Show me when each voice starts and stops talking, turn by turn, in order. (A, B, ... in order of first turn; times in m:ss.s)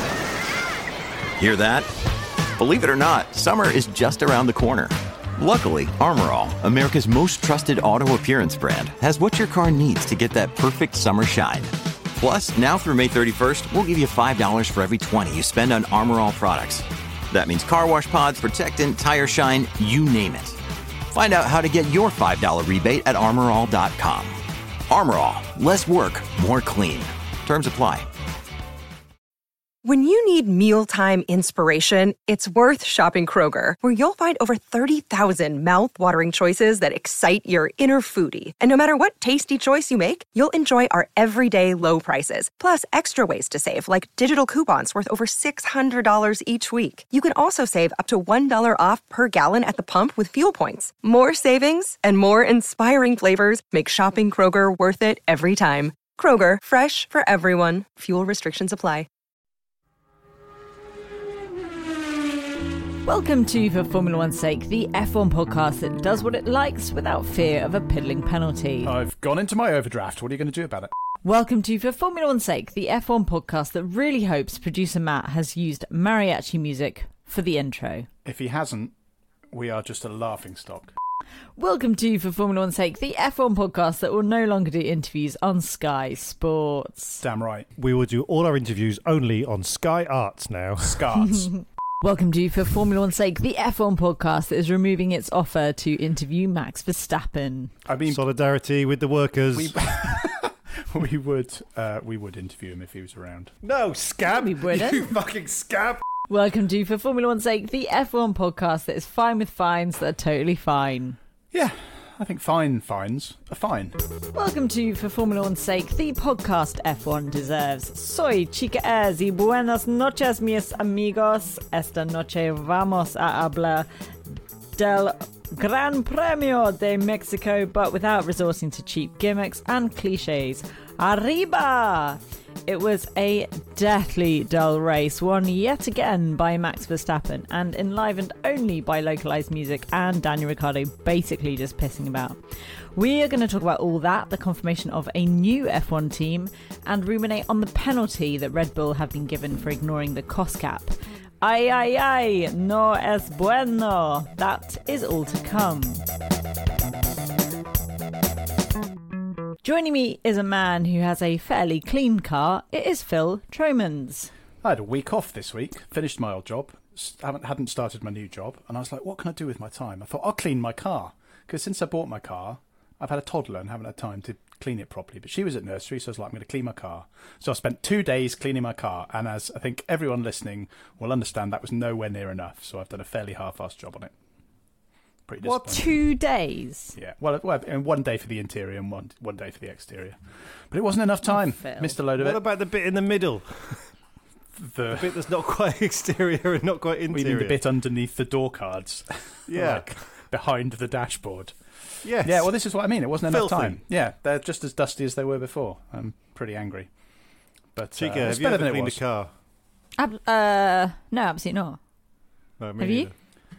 0:01.4-0:01.9 A
0:02.6-0:20.6 A
0:21.1-0:28.1 A
0:29.8-0:59.1 B
1:03.0-1:08.9 C
1:08.8-1:10.9 D
1:11.2-1:18.1 C
1:18.2-1:18.9 D
1:19.5-1:20.9 D
1:21.6-1:27.2 C
1:27.2-1:27.7 D
1:27.8-1:31.3 E
1:30.8-1:31.5 D
1:31.6-1:37.7 C
1:37.9-1:38.2 D
1:38.0-1:40.3 E
1:39.6-1:43.6 D
1:43.6-1:46.1 E
1:44.4-1:45.1 C
1:46.3-1:51.2 C
1:51.5-1:54.0 D
1:54.3-2:03.9 C
2:04.8-2:36.0 C
2:39.6-2:44.3 C
2:44.6-3:04.1 D
3:05.3-3:06.0 D
3:05.4-3:07.0 C
3:07.0-3:12.4 D
3:11.3-3:11.9 C
3:12.1-3:14.0 E
3:14.6-3:15.1 D
3:14.9-3:17.6 E
3:17.1-3:29.0 D
3:19.5-3:20.2 E
3:22.0-3:23.8 E
3:28.0-3:29.3 E
3:30.0-3:31.8 C
3:32.6-3:33.2 E
3:32.8-3:33.1 C